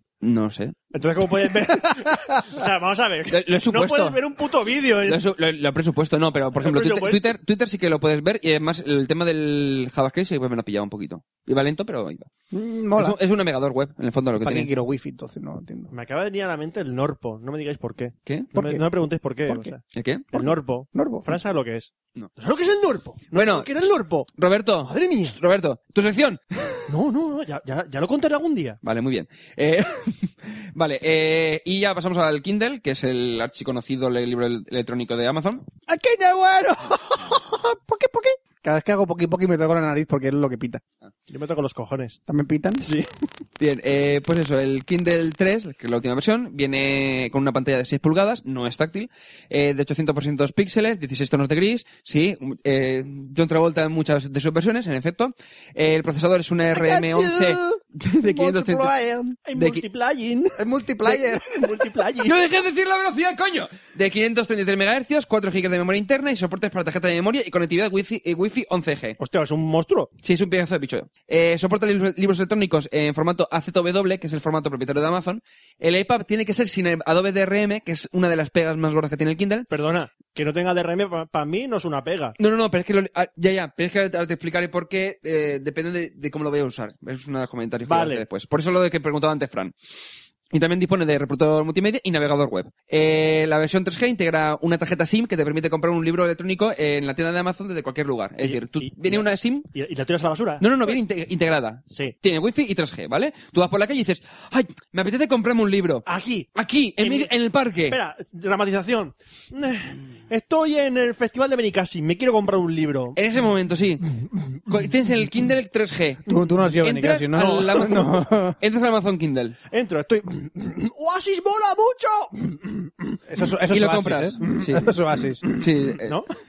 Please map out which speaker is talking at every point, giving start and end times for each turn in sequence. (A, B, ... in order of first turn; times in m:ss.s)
0:00.2-0:00.8 A
0:00.9-0:05.2 B
0:03.3-0:04.2 A
0:05.0-0:12.3 A
0:06.5-0:07.2 B
0:12.5-0:13.2 C
0:13.0-0:14.7 A
0:14.4-0:15.9 C
0:15.9-0:19.8 B
0:18.2-0:18.5 A
0:18.5-0:18.8 C
0:19.9-0:20.3 A
0:20.3-0:24.3 B
0:20.9-0:21.3 C
0:23.3-0:26.8 A
0:24.8-0:25.4 B
0:26.9-0:28.8 B
0:28.8-0:35.6 A
0:35.9-0:40.8 C
0:41.3-0:42.2 B
0:42.3-0:42.8 C
0:42.8-0:43.1 B
0:43.6-0:58.9 A
0:56.7-0:59.4 C
0:59.4-1:02.4 B
0:59.5-0:59.8 A
1:00.6-1:01.9 C
1:02.2-1:09.2 A
1:09.2-1:10.1 B
1:10.2-1:19.7 A
1:19.7-1:22.4 B
1:22.4-1:29.7 A
1:27.8-1:28.2 B
1:30.5-1:39.7 A
1:38.4-1:41.0 B
1:40.6-1:48.0 A
1:46.0-1:46.5 B
1:47.0-1:47.3 B
1:47.9-1:53.2 B
1:53.2-1:54.1 A
1:54.7-1:56.2 A
1:56.3-1:58.6 C
1:56.8-1:59.6 A
1:59.7-2:03.1 B
2:03.3-2:05.4 C
2:03.7-2:04.9 A
2:05.5-2:06.1 A